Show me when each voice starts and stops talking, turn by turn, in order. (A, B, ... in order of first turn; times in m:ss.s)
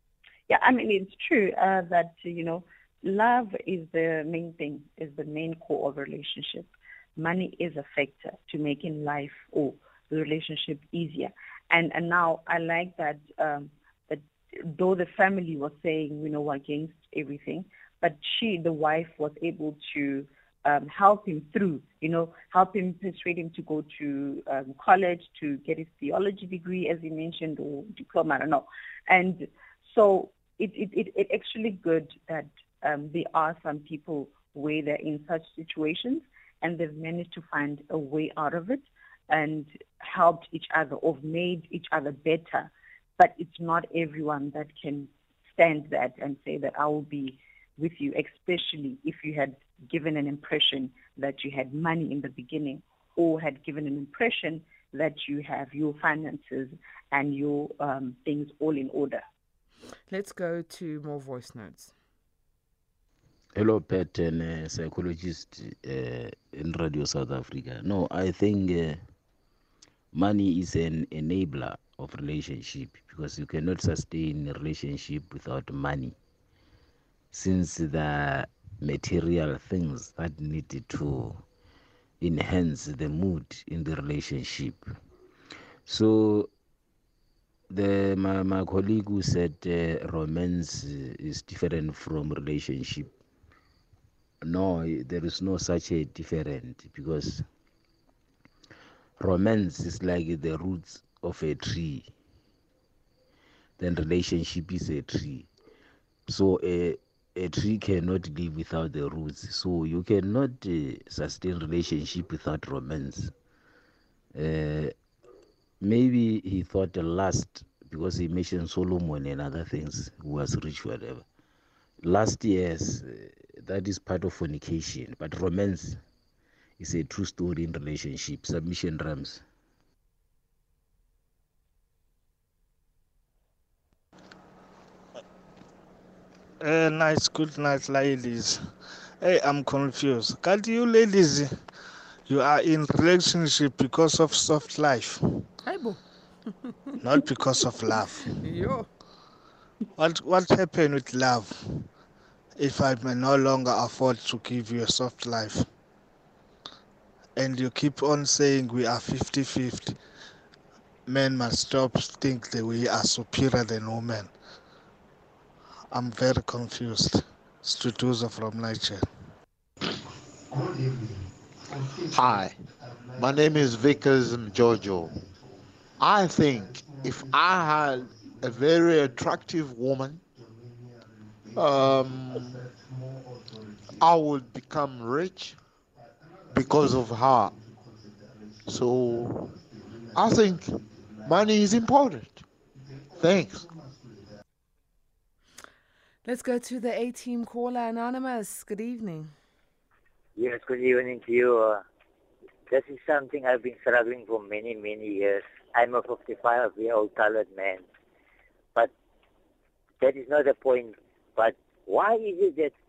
0:00.5-0:59.2 A
1:00.1-1:01.9 B
1:03.6-1:09.0 C
1:10.1-1:16.2 C
1:17.3-1:21.4 C
1:22.2-1:24.8 C
1:25.8-1:26.5 C
1:27.7-1:33.1 C
1:34.4-1:37.4 C
1:39.2-1:42.1 C
1:43.8-1:45.5 C
1:46.3-1:53.3 C
1:54.3-1:54.9 C
1:55.8-2:01.2 C
2:02.0-2:06.0 C
2:06.8-2:09.4 C
2:16.6-2:18.7 D
2:19.2-2:21.5 D
2:22.3-2:25.5 D
2:25.6-2:26.0 B
2:27.0-2:28.4 D
2:28.2-2:28.9 B
2:30.0-2:31.9 D
2:32.6-2:35.6 D
2:37.4-2:40.0 D
2:41.1-2:44.3 D
2:45.9-2:49.0 D
2:52.1-2:52.6 E
2:53.2-2:55.2 E
2:56.0-3:00.2 E
3:01.6-3:02.6 E
3:04.0-3:05.6 E
3:06.5-3:07.6 E
3:08.6-3:09.5 E
3:10.1-3:12.4 E
3:13.1-3:13.7 E
3:16.2-3:19.3 B
3:20.4-3:21.8 F
3:22.7-3:27.8 F
3:30.0-3:32.7 F